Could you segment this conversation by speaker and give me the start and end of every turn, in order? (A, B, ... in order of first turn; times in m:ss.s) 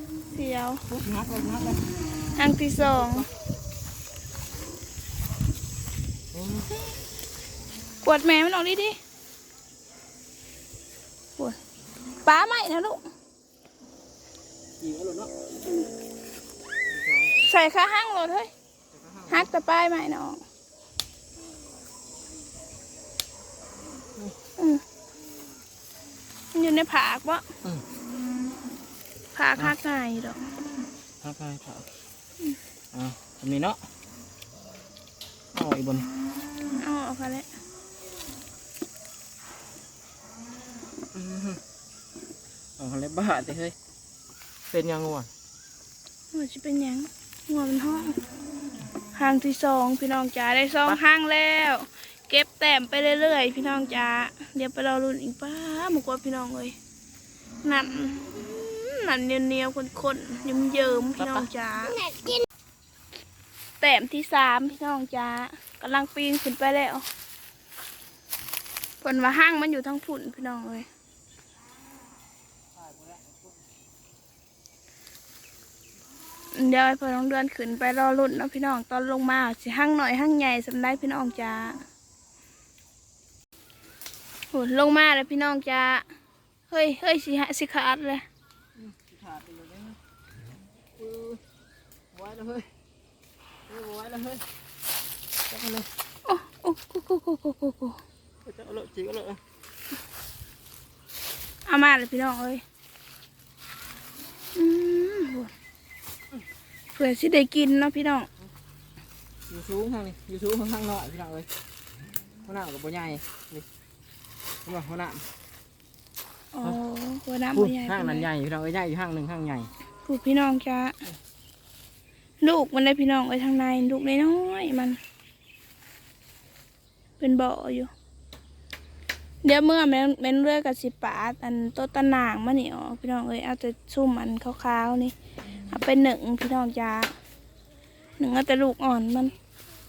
0:00.3-0:00.8 A
0:00.9-0:01.8 B
0:02.4-0:03.2 A
0:02.8-0:03.2 B
0:06.3-0:06.7 B
0:08.0-0:09.0 A
0:12.2-0:13.0 A
0:14.8-0:15.3 B
0:16.9-0:17.5 B
0:17.4-0:18.5 A
0:18.9-0:19.5 B
0:19.3-0:20.4 A
0:24.6-0:24.8 A
0:26.5-0:27.4 A
0:29.3-0:30.4 A
0:31.2-0:31.9 B
0:32.9-0:33.8 B
0:35.5-0:36.1 B
0:36.7-0:37.5 A
0:41.1-0:41.6 B
0:42.8-0:43.7 B
0:44.7-0:45.3 B
0:46.3-0:48.2 A
0:49.1-0:56.7 A
0:57.6-1:02.0 A
1:01.2-1:01.5 B
1:03.8-1:07.0 A
1:09.0-1:10.9 A
1:12.8-1:13.3 B
1:16.5-1:21.8 A
1:24.5-1:26.0 A
1:26.7-1:28.2 A
1:28.8-1:30.0 B
1:31.0-1:31.4 B
1:32.1-1:32.7 B
1:33.7-1:34.4 B
1:35.5-1:35.9 B
1:36.2-1:38.0 A
1:38.4-1:39.4 B
1:41.6-1:42.6 A
1:44.5-1:45.5 A
1:46.9-1:48.3 A
1:49.5-1:51.5 B
1:52.4-1:53.6 B
1:54.6-1:55.2 B
1:56.5-1:58.3 A
1:57.5-1:59.7 B
2:00.0-2:01.0 A
2:02.4-2:05.0 A
2:07.2-2:07.9 A
2:09.4-2:15.1 A
2:15.7-2:17.1 A
2:18.2-2:19.3 A